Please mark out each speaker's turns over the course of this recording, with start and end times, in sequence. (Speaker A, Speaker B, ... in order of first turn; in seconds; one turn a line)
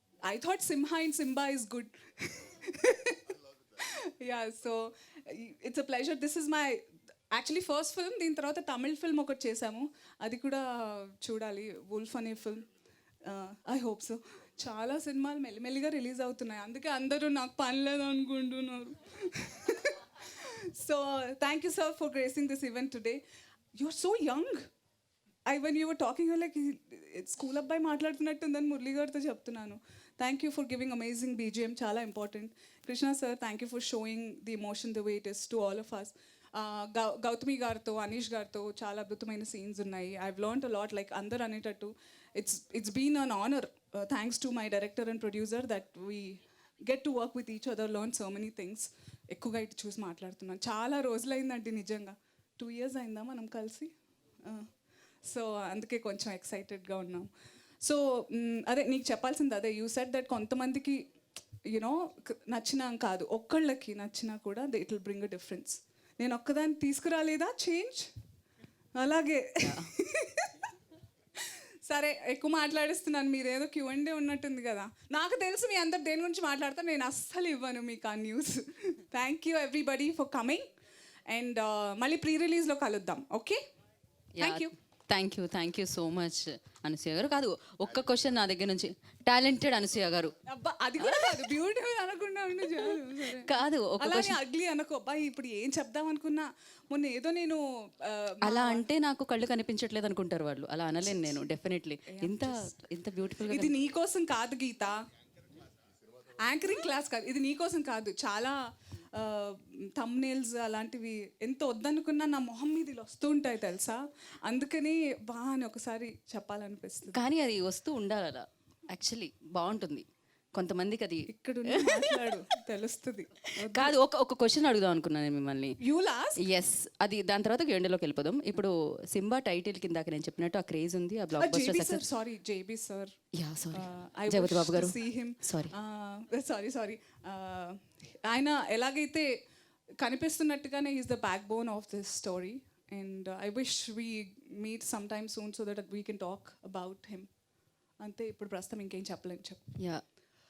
Speaker A: 0.2-6.8
Speaker A: 7.3-12.7
Speaker A: 13.2-23.2
Speaker A: 23.8-24.7
Speaker A: 25.5-53.9
Speaker A: 55.2-57.3
Speaker A: 57.8-61.0
Speaker A: 61.7-68.1
Speaker A: 69.0-70.7
Speaker B: 69.6-69.9
Speaker A: 71.4-80.7
Speaker A: 81.3-83.6
Speaker B: 84.4-90.3
Speaker A: 84.4-84.7
Speaker A: 90.4-98.9
Speaker B: 91.0-91.5
Speaker B: 92.9-94.4
Speaker B: 98.4-103.8
Speaker A: 101.0-101.4
Speaker A: 102.1-102.7
Speaker A: 103.5-105.0
Speaker A: 106.4-108.6
Speaker A: 109.1-117.2
Speaker B: 117.1-122.3
Speaker A: 121.3-123.9
Speaker B: 123.7-125.8
Speaker A: 125.8-126.4
Speaker B: 126.4-132.0
Speaker A: 131.4-133.1
Speaker B: 133.3-135.7
Speaker A: 133.7-139.3
Speaker A: 140.0-147.3
Speaker A: 148.0-149.6